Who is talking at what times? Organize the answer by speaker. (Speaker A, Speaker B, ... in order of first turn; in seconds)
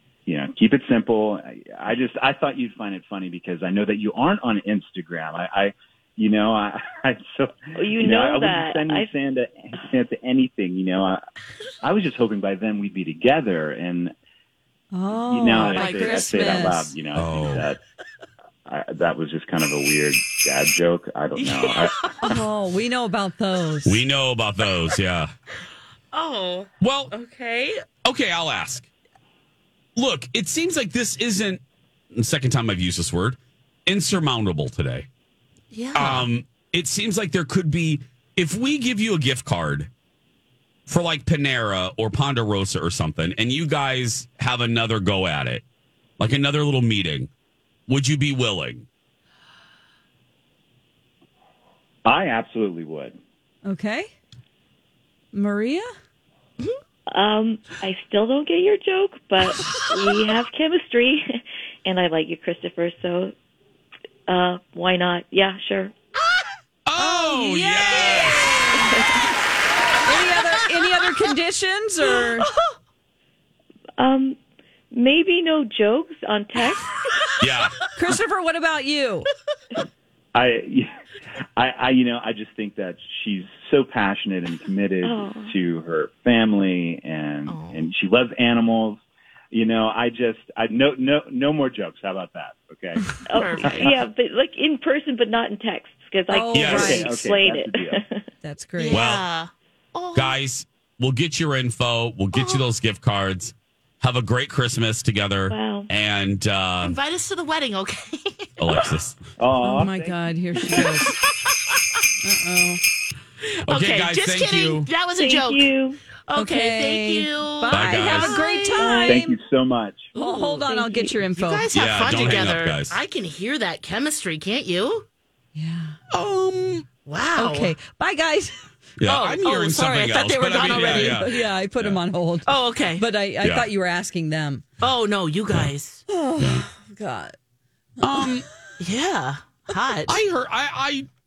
Speaker A: 0.2-11.2, 11.8-14.1, 15.1-17.8, 18.6-22.0, 52.0-53.1, 80.3-80.9, 81.5-89.0, 89.5-93.9, 96.5-98.0, 109.4-110.8, 118.8-120.1
Speaker B: 7.7-9.1, 57.1-63.3, 64.3-65.9, 74.0-74.4, 74.9-77.0, 85.0-85.5, 93.2-98.2, 105.5-105.9, 115.2-116.0
Speaker C: 14.9-16.9, 22.2-24.0, 53.6-54.1, 55.3-55.9, 67.0-69.0, 70.0-72.5, 78.0-79.3, 96.3-97.1, 98.4-99.0, 109.6-111.2, 112.2-112.8, 116.3-119.4, 120.1-121.7, 125.5-126.0, 127.4-128.6, 130.7-134.6, 136.1-137.3, 138.0-138.3
Speaker D: 15.7-16.6, 21.4-22.4, 26.1-27.8, 35.7-36.3, 72.2-72.7, 87.5-87.9, 93.3-93.9, 98.8-100.3, 106.8-108.9, 110.8-111.8, 113.7-119.2, 120.1-125.0, 127.0-127.7, 129.1-131.4, 132.4-133.1, 134.8-136.0, 138.8-140.1
Speaker E: 17.1-17.7, 23.8-25.3, 26.8-27.1, 28.0-28.9, 29.9-31.6, 32.1-35.1, 35.9-39.9, 40.9-45.6, 46.2-47.3, 47.9-48.9, 66.8-68.7, 77.4-77.8, 96.5-97.0, 98.9-99.2, 100.1-107.0, 108.6-109.2, 113.7-114.9, 117.7-118.4, 121.7-123.0, 126.1-126.9, 129.0-132.0, 133.4-133.7, 136.4-136.7, 138.0-138.4, 140.1-141.1